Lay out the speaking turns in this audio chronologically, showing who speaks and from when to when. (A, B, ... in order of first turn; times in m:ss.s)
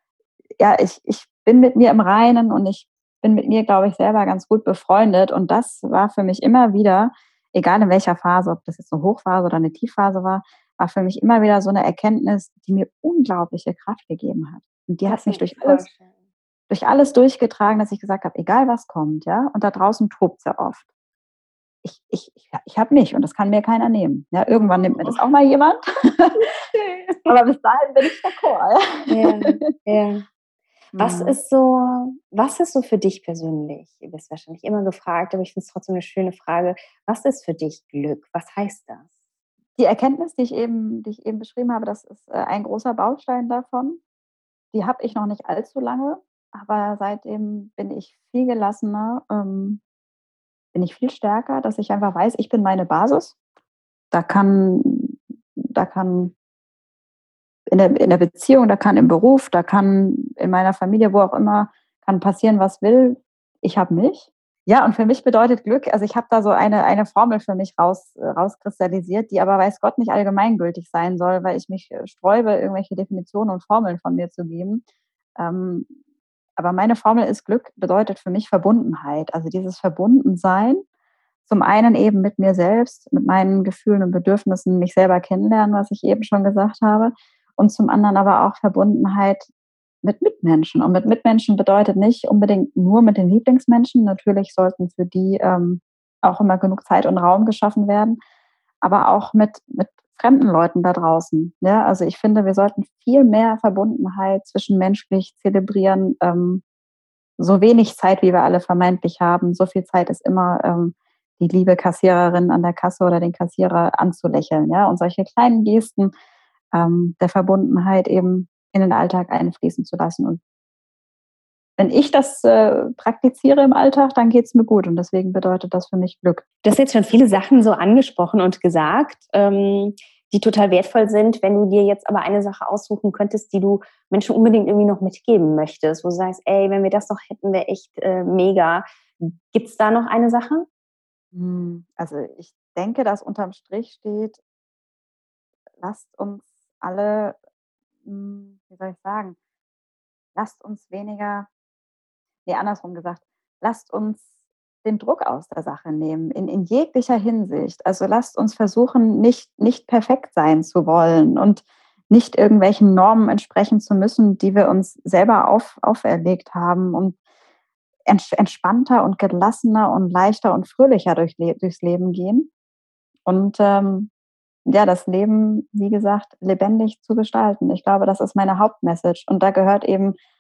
0:00.6-0:15.9 A
0:15.1-0:16.2 B
0:16.7-0:20.9 A
0:21.8-0:26.4 A
0:24.5-0:25.3 B
0:26.7-0:27.1 B
0:27.2-0:29.6 A
0:29.1-0:30.3 B
0:30.9-0:39.1 B
0:31.0-0:31.4 A
0:39.8-0:44.0 A
0:44.7-0:49.8 A
0:50.7-0:53.4 A
0:54.1-0:56.3 A
0:57.7-1:14.8 A
1:15.4-1:15.9 A
1:16.6-1:20.8 A
1:21.5-1:29.5 A
1:30.0-1:38.2 A
1:38.8-1:46.6 A
1:47.4-1:56.1 A
1:56.7-2:00.4 A
2:01.8-2:06.4 A
2:06.6-2:20.7 B
2:21.3-2:24.4 A
2:25.8-2:27.4 A
2:28.0-2:29.4 A
2:30.4-2:31.5 A
2:32.5-2:34.3 A
2:34.8-2:47.2 A
2:48.1-2:52.5 A
2:53.3-2:54.1 A
2:54.7-3:00.2 A